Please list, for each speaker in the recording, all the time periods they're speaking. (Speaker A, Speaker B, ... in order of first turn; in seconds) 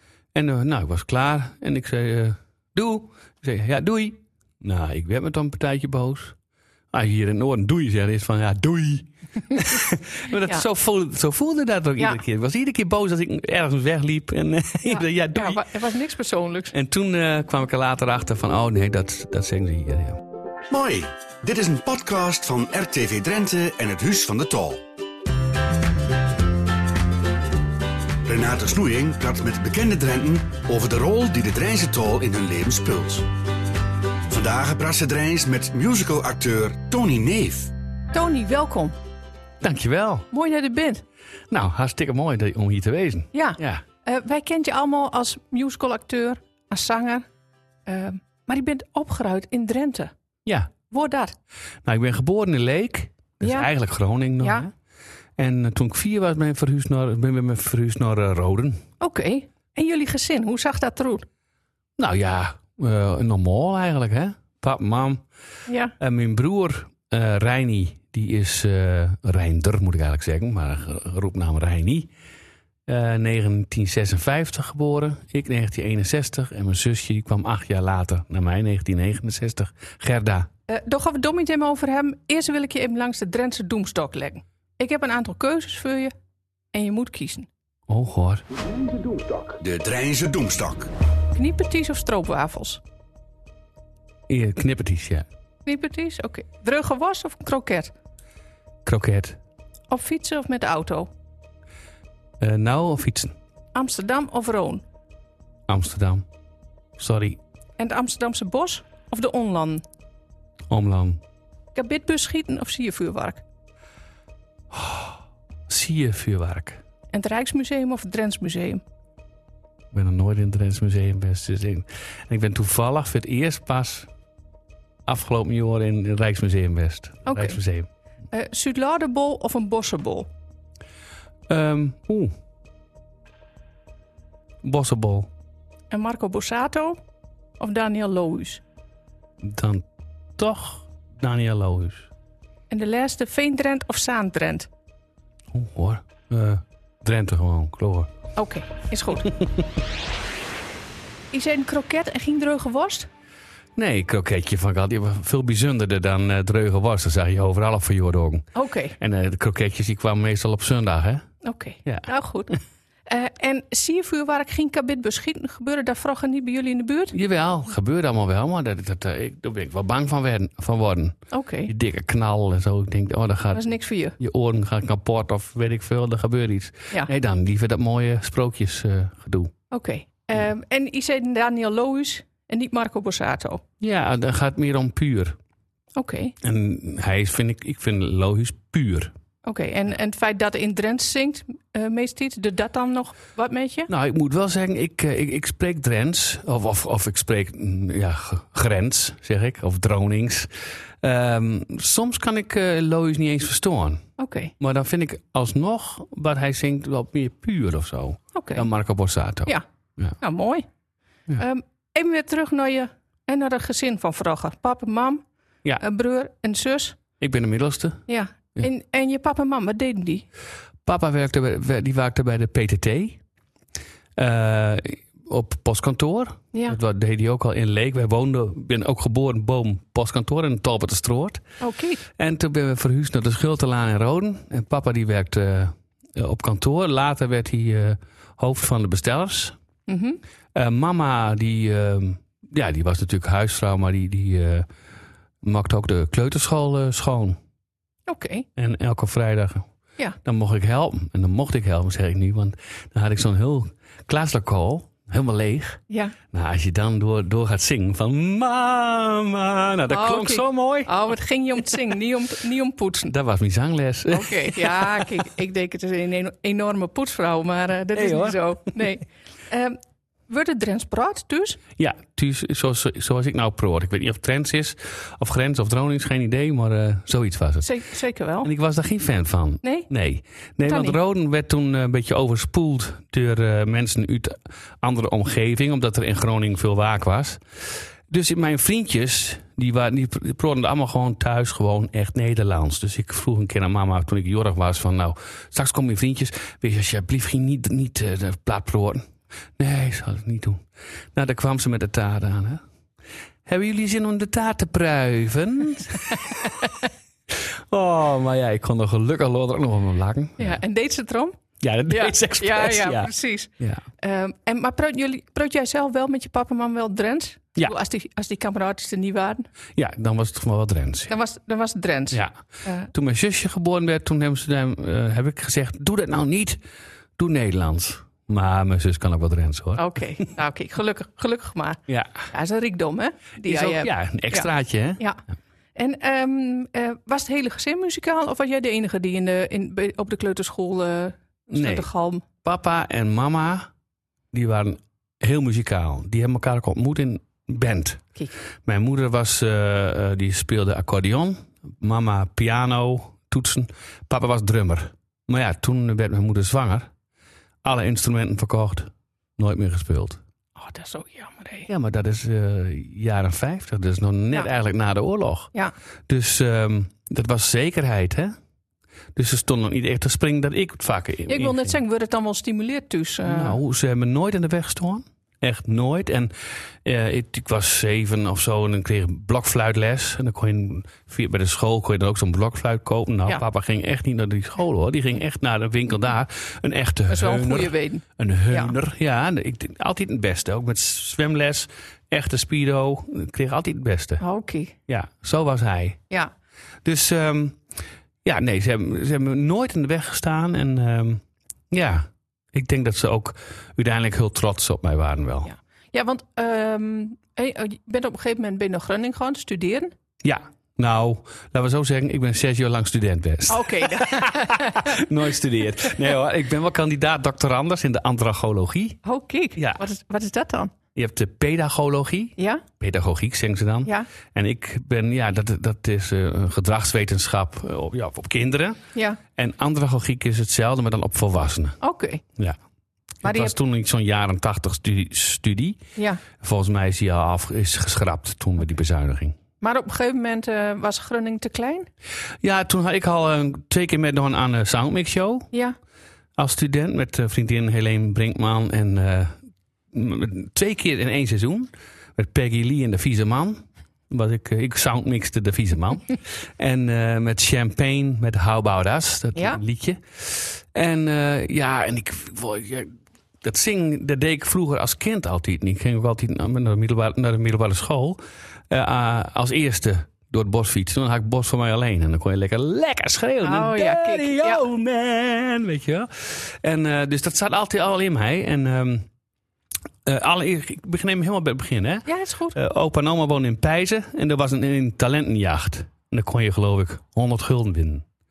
Speaker A: 0.3-6.3, 6.9-15.6, 16.7-20.2, 39.6-40.3, 41.5-43.8, 50.5-50.7, 51.8-54.7, 55.4-58.8, 62.0-65.2, 66.0-72.1, 72.9-80.5, 87.9-88.4, 94.3-95.3, 98.8-99.4, 102.4-103.3, 105.7-106.2, 107.0-107.4, 110.7-111.2, 114.7-115.2, 115.7-116.8, 119.9-124.1, 125.0-127.9, 131.5-132.3, 134.6-135.3, 139.4-139.8, 140.4-142.1, 145.5-148.1, 153.8-161.3, 167.1-179.5, 183.8-185.3, 186.4-189.1, 193.9-200.5, 201.0-204.0, 204.6-210.2, 217.2-218.0, 220.8-223.2, 224.2-231.4, 232.2-239.6, 240.5-244.7, 245.4-247.4, 248.6-249.7, 250.2-255.8, 256.3-260.9, 263.1-265.2, 267.9-268.8, 271.8-277.7, 278.4-287.4, 288.1-300.6, 301.1-302.6, 303.4-310.6, 311.6-313.8, 319.8-321.1, 322.9-326.6, 327.2-330.3, 331.9-332.1, 333.4-335.0, 341.5-341.9, 342.4-343.7, 344.3-348.1, 348.6-356.9, 357.6-360.2, 361.7-365.5, 366.1-368.3, 369.1-371.8, 373.2-394.2, 394.9-396.0, 396.8-397.6, 398.2-405.5, 410.2-419.0, 419.6-419.8, 420.9-428.8, 429.3-431.8, 433.2-435.8, 436.4-439.4, 442.4-445.5, 446.4-449.4, 449.9-479.1, 480.0-488.0
Speaker B: 14.8-16.7, 38.1-39.0, 40.3-41.0, 43.3-47.2, 47.9-50.1, 50.9-51.3, 53.4-53.7, 54.4-54.6, 59.0-61.2, 65.7-65.9, 80.7-86.1, 86.7-87.5, 91.3-92.8, 95.7-97.9, 99.9-101.1, 103.7-104.8, 107.8-109.8, 111.7-113.4, 117.1-118.8, 127.2-127.6, 128.3-130.3, 135.9-137.0, 137.6-138.6, 142.7-144.7, 148.3-149.4, 151.3-153.1, 158.5-158.9, 161.4-167.1, 171.3-171.7, 173.5-174.2, 179.7-183.6, 185.9-186.3, 189.4-193.9, 204.2-204.5, 208.3-208.6, 210.2-210.7, 211.4-215.2, 215.8-217.0, 218.1-220.2, 231.6-232.0, 239.9-240.2, 248.1-248.4, 255.9-256.1, 259.9-263.1, 264.1-269.8, 270.3-271.6, 277.6-278.5, 279.6-279.9, 280.7-281.0, 310.4-319.5, 321.1-322.9, 329.8-334.5, 335.8-342.2, 360.6-361.7, 371.3-373.6, 387.1-388.7, 394.2-394.8, 405.9-409.9, 413.5-415.0, 419.0-420.7, 422.4-422.6, 428.9-429.2, 431.8-432.2, 433.2-433.5, 435.9-436.2, 439.6-441.9, 473.4-474.6, 482.1-482.6
Speaker C: 20.7-24.8, 28.2-33.3, 34.3-37.7, 88.8-90.9